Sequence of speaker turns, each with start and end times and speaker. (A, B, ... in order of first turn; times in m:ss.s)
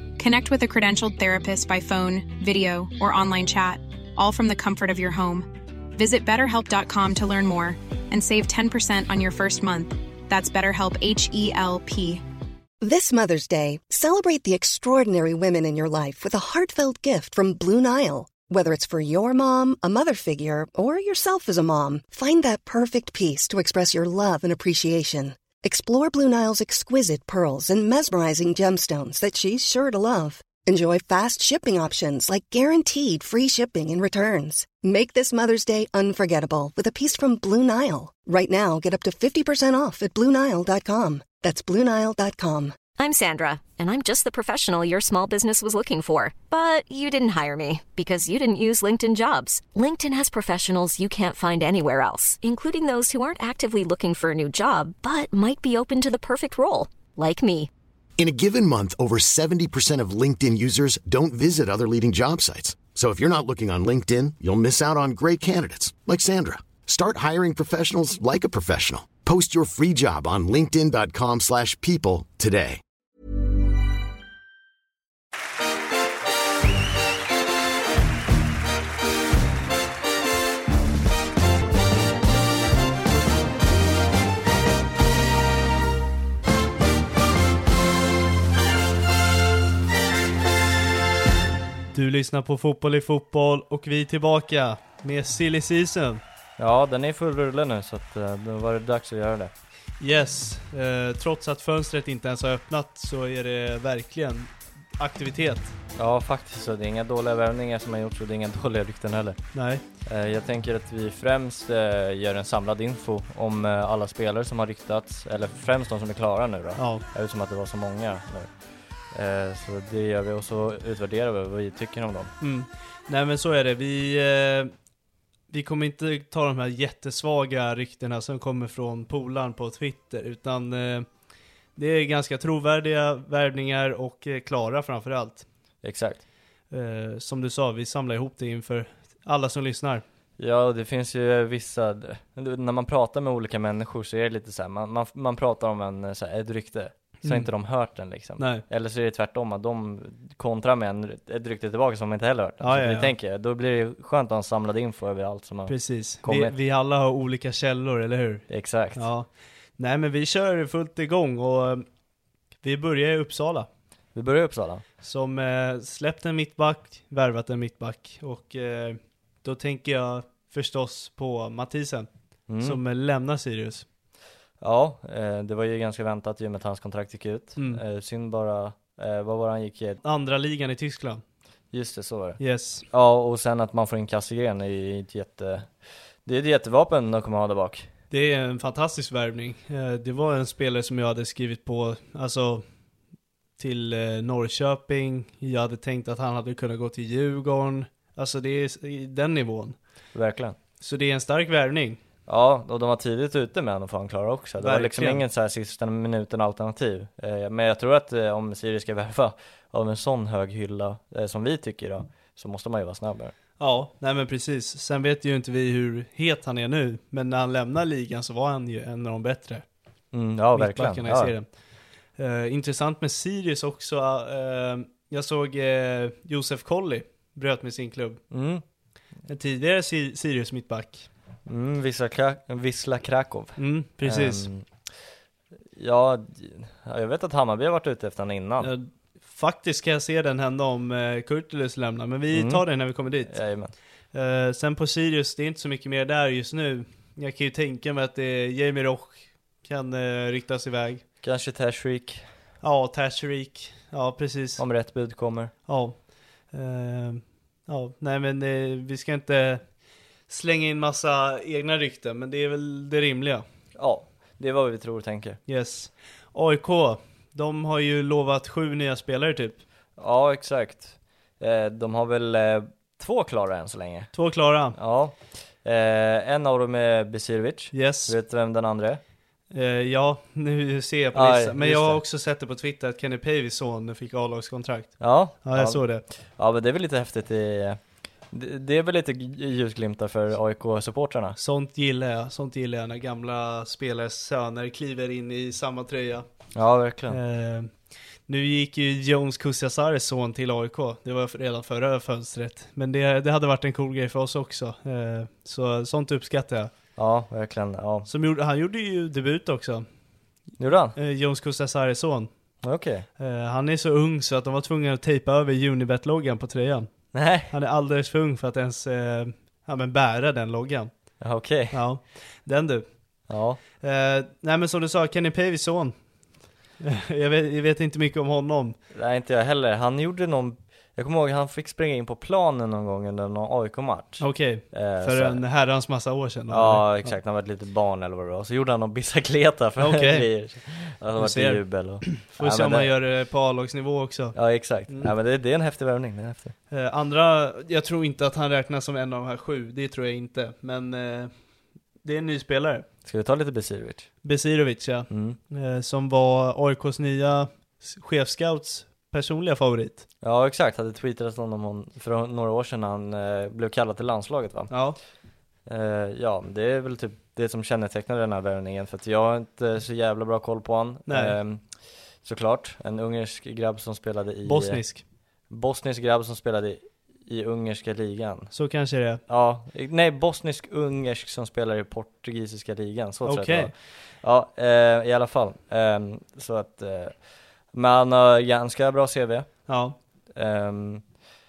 0:00.2-0:12.2 A
0:12.8-0:42.8 B
0:43.0-0:57.7 C
0:58.2-1:12.8 D
1:31.9-1:36.2 E
1:36.6-1:39.5 F
1:40.0-1:45.7 E
1:46.0-1:49.4 F
1:49.5-1:49.8 E
1:50.0-1:58.5 F
1:56.8-1:57.0 E
1:59.1-2:02.3 F
2:02.4-2:04.7 E
2:05.5-2:11.1 E
2:11.8-2:15.4 E
2:15.8-2:16.2 F
2:16.7-2:20.0 E
2:20.4-2:36.5 F
2:27.2-2:27.5 E
2:28.4-2:28.6 E
2:32.6-2:33.1 E
2:35.7-2:38.4 E
2:38.5-2:39.0 F
2:39.0-2:41.8 E
2:42.6-2:43.7 E
2:44.1-2:44.8 F
2:45.0-2:52.1 E
2:52.5-2:52.8 F
2:52.6-2:53.8 E
2:54.6-3:00.0 F
3:00.0-3:01.2 E
3:01.7-3:05.7 F
3:02.4-3:02.8 E
3:06.2-3:07.9 F
3:08.1-3:12.6 E
3:13.6-3:19.8 E
3:20.1-3:20.6 F
3:20.8-3:22.0 E
3:22.3-3:33.3 F
3:24.6-3:25.2 E
3:33.6-3:39.6 E
3:40.1-3:41.3 F
3:40.5-3:41.5 E
3:42.2-3:48.2 E
3:48.3-3:48.6 F
3:49.3-3:51.1 E
3:51.4-3:54.6 F
3:53.6-3:54.5 E
3:55.8-3:58.7 F
3:58.6-4:03.3 E
4:02.3-4:02.6 F
4:03.3-4:03.7 F
4:04.1-4:11.0 E
4:11.2-4:12.2 F
4:12.6-4:14.6 E
4:14.6-4:15.5 F
4:15.7-4:16.0 E
4:16.5-4:19.6 E
4:20.3-4:23.4 E
4:23.8-4:25.4 F
4:25.5-4:29.6 E
4:30.0-4:34.1 F
4:34.1-4:34.8 E
4:34.8-4:39.0 F
4:37.7-4:38.1 E
4:39.5-4:46.0 E
4:41.1-4:42.0 F
4:45.0-4:45.8 F
4:46.4-4:47.8 F
4:48.3-4:51.4 F
4:51.4-4:56.2 E
4:56.5-4:57.2 F
4:57.1-4:57.7 E
4:58.3-5:06.7 E
5:07.0-5:08.1 F
5:08.1-5:09.8 E
5:10.6-5:11.0 F
5:11.0-5:12.3 E
5:12.6-5:13.0 F
5:13.2-5:16.9 E
5:17.1-5:17.5 F
5:17.5-5:20.9 E
5:21.2-5:21.8 F
5:21.7-5:22.8 E
5:23.3-5:23.6 F
5:23.8-5:25.9 E
5:26.8-5:28.8 E
5:28.9-5:35.4 F
5:34.2-5:37.1 E
5:36.5-5:42.9 F
5:39.8-5:40.3 E
5:41.2-5:44.4 E
5:44.4-5:46.5 F
5:46.7-5:51.3 E
5:52.0-5:52.8 E
5:53.0-5:54.1 F
5:54.2-6:00.0 E
5:55.1-5:55.4 F
6:00.2-6:04.7 F
6:04.7-6:05.0 E
6:05.7-6:11.6 F
6:11.1-6:11.3 E
6:12.2-6:14.8 F
6:14.4-6:15.0 E
6:15.5-6:18.5 F
6:18.5-6:19.2 E
6:19.3-6:27.1 F
6:23.2-6:23.7 E
6:27.7-6:29.6 F
6:29.7-6:30.0 E
6:30.4-6:31.0 F